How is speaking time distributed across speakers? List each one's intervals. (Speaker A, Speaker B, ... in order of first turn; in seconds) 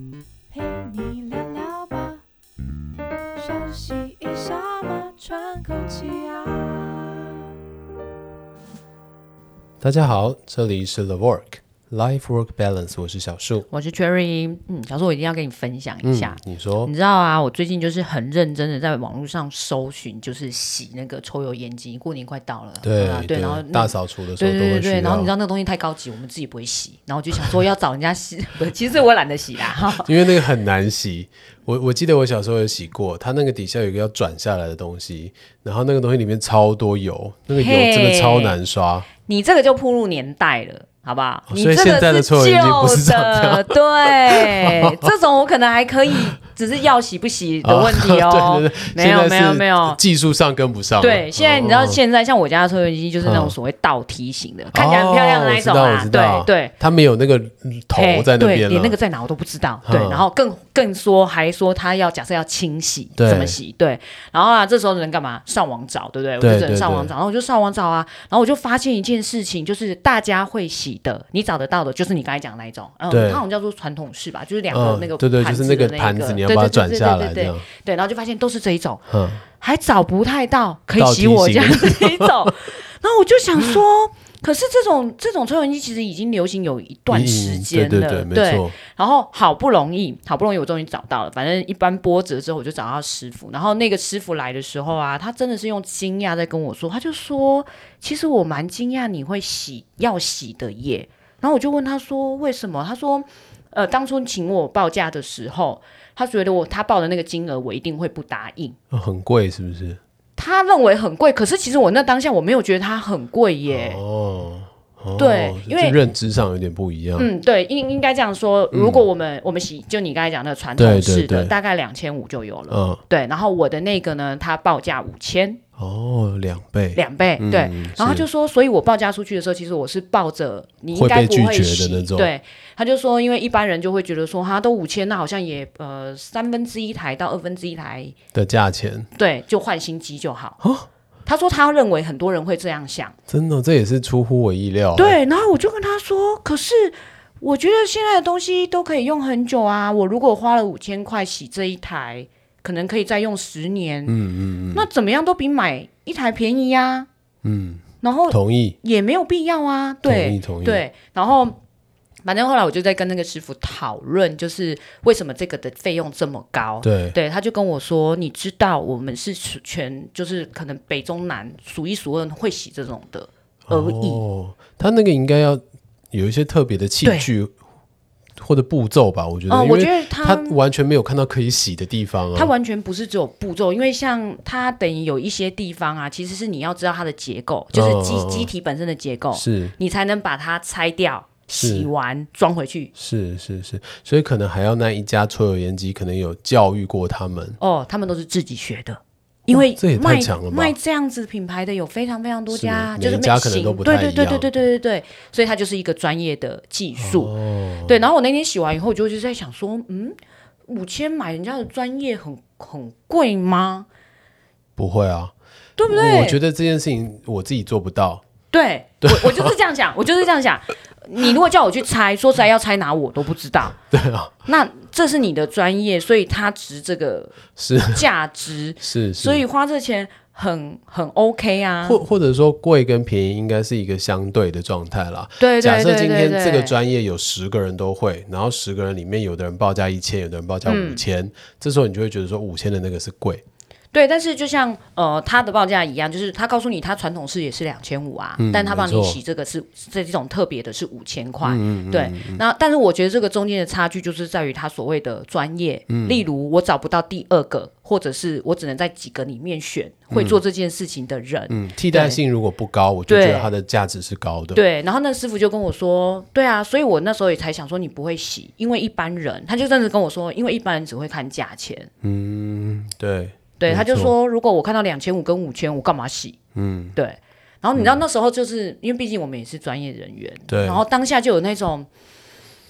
Speaker A: 0.5-2.2, 3.4-7.4
Speaker B: 9.8-13.7, 16.0-16.9, 22.8-25.3, 29.8-39.1, 41.5-45.0, 47.6-52.0, 53.2-53.5, 54.7-59.0, 59.8-60.3, 63.2-63.6, 66.4-67.1, 73.1-73.4, 74.7-77.7, 79.1-79.4, 80.9-82.5, 87.1-88.7, 108.9-110.0, 113.7-117.3, 118.7-119.0, 120.8-121.5, 122.7-123.0, 125.8-128.2, 130.9-132.3, 138.3-139.1, 140.6-140.9, 143.3-145.2, 154.1-154.9, 157.4-158.8, 160.0-160.8, 166.8-167.2, 173.7-177.5, 178.4-182.5, 187.7-188.5, 189.3-189.8, 191.6-191.9, 192.9-197.6, 199.5-200.8, 202.5-204.5, 207.0-208.0, 214.8-215.3, 215.9-218.2, 219.0-219.6, 223.9-224.3, 227.6-228.1, 228.8-229.4, 231.8-243.4, 248.4-249.2, 251.4-252.4, 255.9-256.2, 260.1-260.4, 261.5-264.6, 272.0-274.1, 276.5-277.0, 277.8-278.0, 280.5-280.8
Speaker C: 13.7-30.1, 37.5-38.6, 39.2-50.0, 51.0-56.7, 57.9-79.0, 79.6-108.8, 110.3-114.0, 115.2-116.0, 117.2-125.6, 126.9-138.1, 139.1-140.6, 141.2-143.2, 144.9-154.2, 154.7-157.1, 158.0-161.6, 162.2-174.2, 177.0-177.3, 179.5-180.6, 182.3-192.9, 197.6-213.9, 215.8-216.4, 218.5-223.8, 224.4-227.4, 227.9-232.0, 235.4-236.8, 240.6-241.0, 243.9-262.2, 263.1-263.5, 264.5-271.9, 273.6-276.4, 276.9-281.9